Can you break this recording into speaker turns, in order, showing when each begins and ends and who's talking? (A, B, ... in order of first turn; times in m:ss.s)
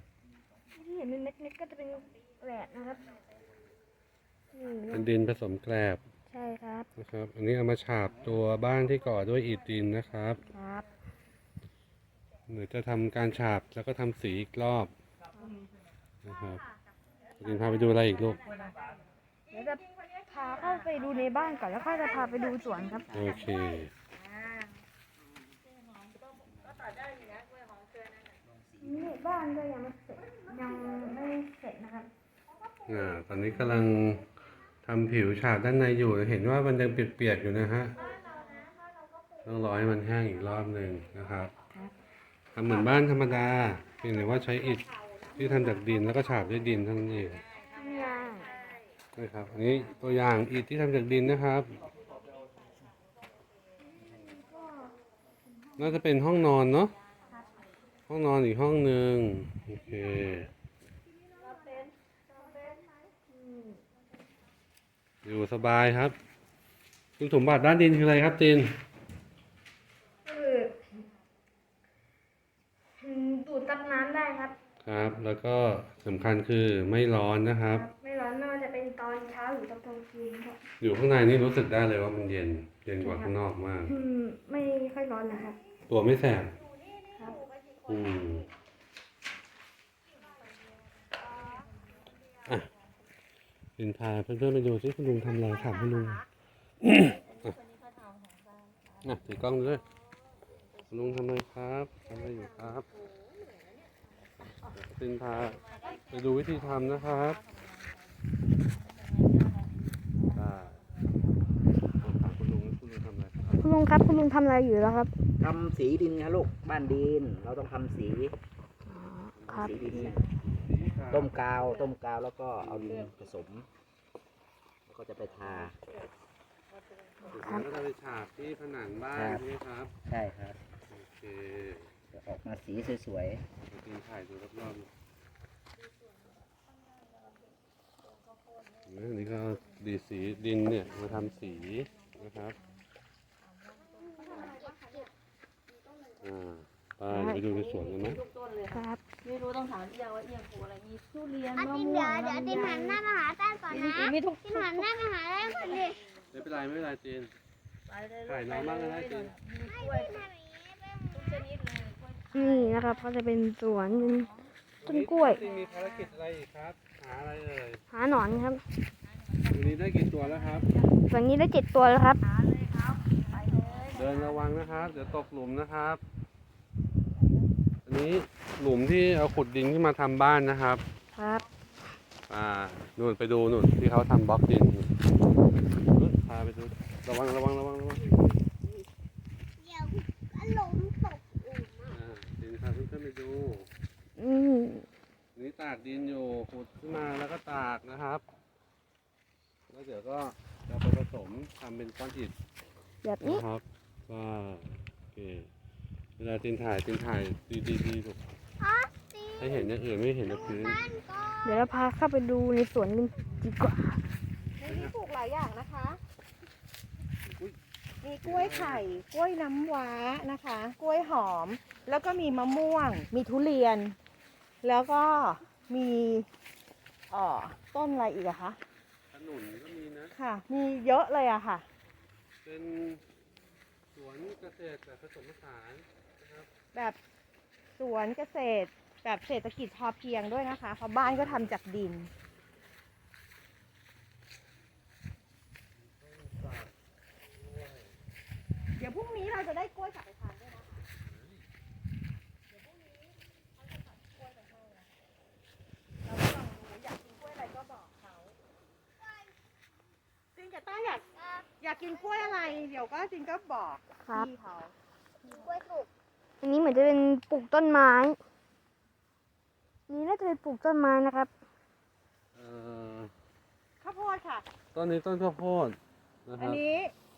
0:00.8-0:03.0 A
0:04.5-0:05.1 A
0:04.9-0:06.0 B
0:06.3-0:06.9 A
0:07.0-0:10.4 B
0:10.5-0:10.8 A
0:12.5-0:14.9 B
0:16.2-0:16.7 B
0:17.4-0:18.4 B
0:17.5-0:18.6 C
0:19.5-0:23.1 A
0:19.6-0:22.8 D
0:22.8-0:23.4 C
0:23.1-0:23.9 B
0:24.1-0:24.7 D
0:26.7-0:28.3 C
0:28.4-0:29.2 E
0:28.8-0:32.1 A
0:30.3-0:31.3 D
0:32.5-0:33.8 D
0:32.9-0:34.3 B
0:34.8-0:38.0 B
0:38.0-0:39.4 D
0:38.2-0:38.6 C
0:39.4-0:41.5 B
0:42.5-0:47.4 B
0:43.9-0:44.8 D
0:47.3-0:48.8 C
0:47.7-0:48.5 A
0:49.2-0:51.7 B
0:54.1-0:54.9 A
0:55.7-0:55.9 A
0:55.8-0:57.0 B
0:58.1-1:00.5 B
1:03.3-1:03.8 A
1:05.2-1:06.2 B
1:07.2-1:08.8 B
1:10.2-1:10.8 A
1:13.0-1:14.6 A
1:14.8-1:17.9 B
1:17.7-1:20.6 A
1:20.8-1:24.0 B
1:23.0-1:23.3 A
1:23.9-1:25.6 A
1:25.9-1:26.6 B
1:26.6-1:28.5 D
1:27.2-1:27.4 A
1:27.9-1:28.5 B
1:30.7-1:31.7 C
1:33.8-1:36.2 B
1:35.8-1:36.2 D
1:36.8-1:37.6 B
1:37.4-1:39.8 C
1:39.0-1:39.8 B
1:40.9-1:42.9 B
1:42.1-1:44.0 C
1:44.5-1:47.4 B
1:45.3-1:48.1 C
1:48.8-1:50.5 C
1:50.3-1:50.8 B
1:52.0-1:53.6 B
1:53.6-1:55.1 A
1:55.4-1:58.4 E
1:58.9-1:59.8 A
1:59.4-2:01.8 B
1:59.5-2:00.3 E
2:01.1-2:03.7 E
2:02.6-2:03.2 B
2:04.9-2:05.8 E
2:07.2-2:07.7 A
2:07.3-2:09.9 B
2:09.1-2:09.4 E
2:10.0-2:10.6 E
2:10.9-2:11.9 B
2:12.1-2:13.4 E
2:13.7-2:14.9 B
2:18.9-2:22.6 B
2:20.6-2:22.5 C
2:23.5-2:25.1 C
2:24.0-2:25.1 F
2:26.2-2:28.2 B
2:27.1-2:27.4 A
2:27.3-2:33.0 C
2:28.7-2:29.0 A
2:31.5-2:36.0 F
2:34.3-2:34.8 D
2:35.4-2:36.0 C
2:36.3-2:37.3 B
2:37.9-2:40.3 C
2:38.2-2:39.4 B
2:39.6-2:41.5 F
2:41.1-2:43.0 C
2:42.3-2:44.3 A
2:44.1-2:44.3 C
2:44.8-2:47.8 B
2:44.8-2:45.4 A
2:45.4-2:46.1 C
2:47.9-2:48.6 A
2:49.5-2:50.7 B
2:50.3-2:50.7 C
2:51.1-2:52.2 A
2:52.3-2:54.6 C
2:53.9-2:56.0 B
2:57.9-3:00.8 B
3:01.2-3:01.4 A
3:02.3-3:04.9 B
3:05.9-3:08.1 B
3:09.6-3:12.0 F
3:11.9-3:13.7 B
3:14.2-3:14.9 A
3:15.4-3:18.2 B
3:19.7-3:22.3 B
3:23.0-3:23.4 A
3:23.2-3:25.5 B
3:26.2-3:28.2 B
3:28.6-3:29.7 F
3:29.4-3:31.0 B
3:30.2-3:31.7 F
3:31.4-3:34.0 A
3:34.6-3:36.0 D
3:34.6-3:34.9 B
3:38.0-3:44.0 D
3:38.2-3:38.8 B
3:44.6-3:46.3 D
3:47.1-3:48.6 D
3:49.1-3:50.1 B
3:50.2-3:51.6 D
3:52.4-3:53.0 B
3:53.9-3:56.5 B
3:57.8-4:02.1 D
4:01.0-4:01.6 B
4:05.8-4:06.7 B
4:07.4-4:07.9 B
4:08.8-4:10.8 D
4:11.0-4:11.4 B
4:12.5-4:13.1 D
4:13.6-4:14.9 D
4:16.0-4:18.4 D
4:20.4-4:21.1 D
4:21.3-4:22.6 F
4:21.6-4:24.7 D
4:24.0-4:24.3 A
4:25.3-4:25.9 F
4:26.4-4:28.2 A
4:29.9-4:31.3 A
4:32.3-4:33.1 B
4:33.8-4:34.5 D
4:34.7-4:35.8 B
4:36.3-4:36.6 B
4:36.4-4:36.9 D